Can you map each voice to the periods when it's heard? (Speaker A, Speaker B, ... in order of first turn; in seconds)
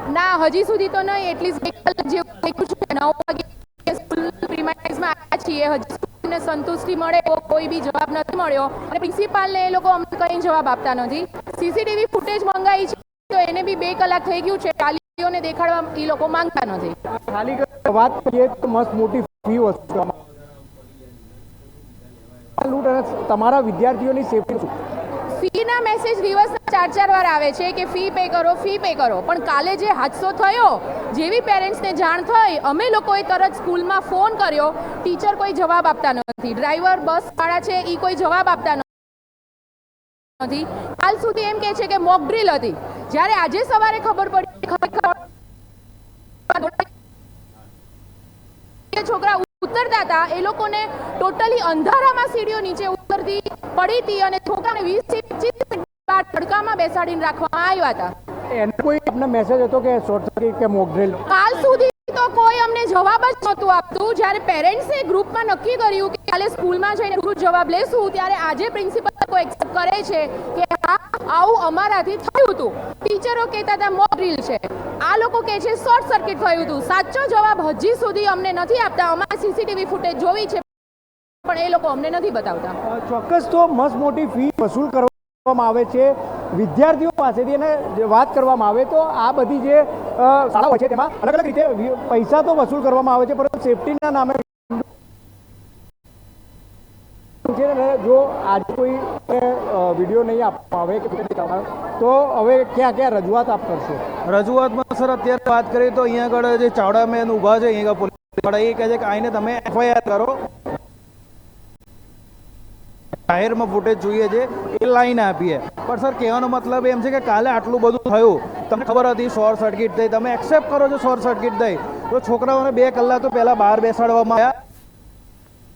Speaker A: 0.1-17.0, 25.3-38.9, 40.4-45.2, 46.5-46.9, 48.9-58.1, 61.3-80.9, 81.4-82.8
Speaker B: 17.1-20.1, 22.6-24.7, 58.5-61.2, 82.9-94.8, 97.5-104.0
Speaker C: 104.3-110.4, 113.3-124.5